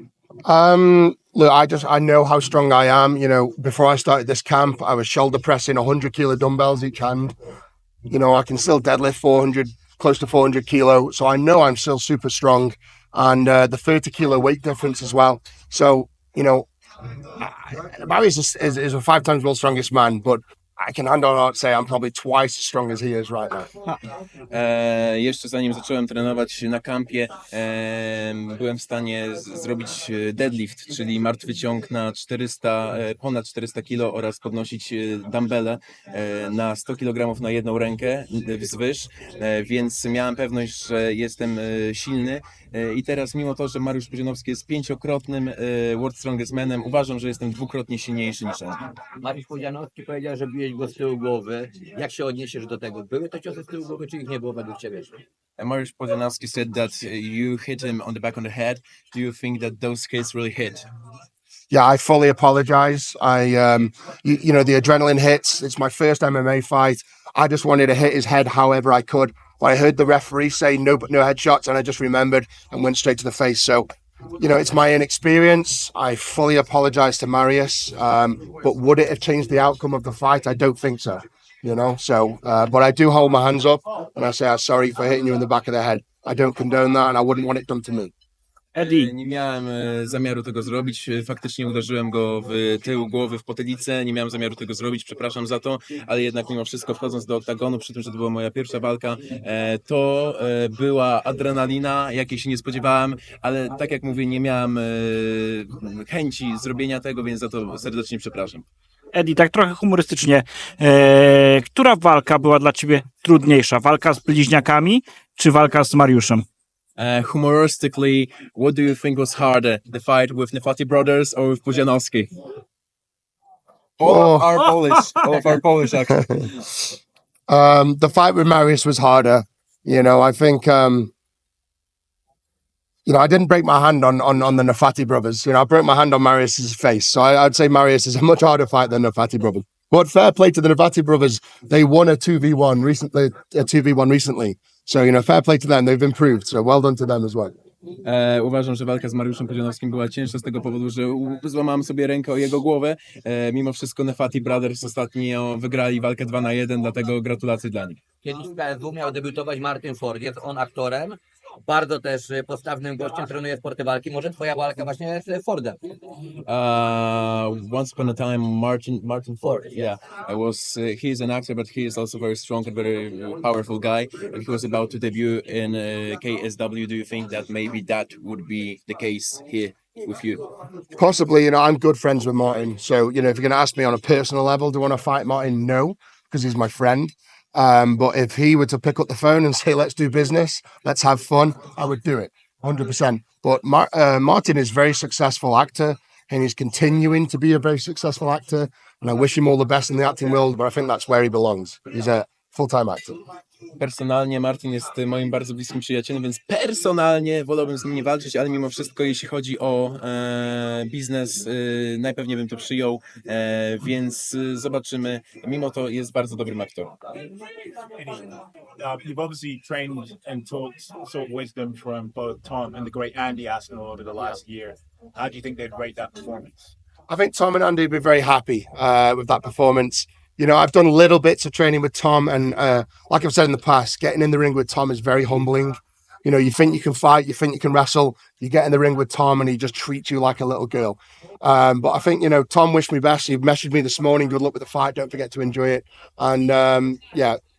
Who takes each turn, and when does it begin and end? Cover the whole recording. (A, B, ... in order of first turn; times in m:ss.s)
0:00.4-0:07.3 A
0:08.1-0:16.7 A
0:17.4-0:23.7 A
0:24.5-0:48.8 B
0:49.2-0:55.2 C
0:55.6-1:00.8 B
1:01.7-1:13.9 A
1:14.4-1:28.1 A
1:28.7-1:29.1 D
1:28.8-1:48.6 B
1:49.1-1:56.4 D
1:57.0-2:02.3 B
2:04.0-2:06.6 B
2:04.0-2:04.6 A
2:07.5-2:11.1 A
2:13.0-2:27.5 A
2:28.0-2:38.0 B
2:38.2-2:45.8 C
2:46.5-3:00.5 B
2:49.4-2:49.8 C
3:01.0-3:23.2 A
3:23.8-3:36.9 B
3:38.0-3:46.7 E
3:47.1-4:07.4 A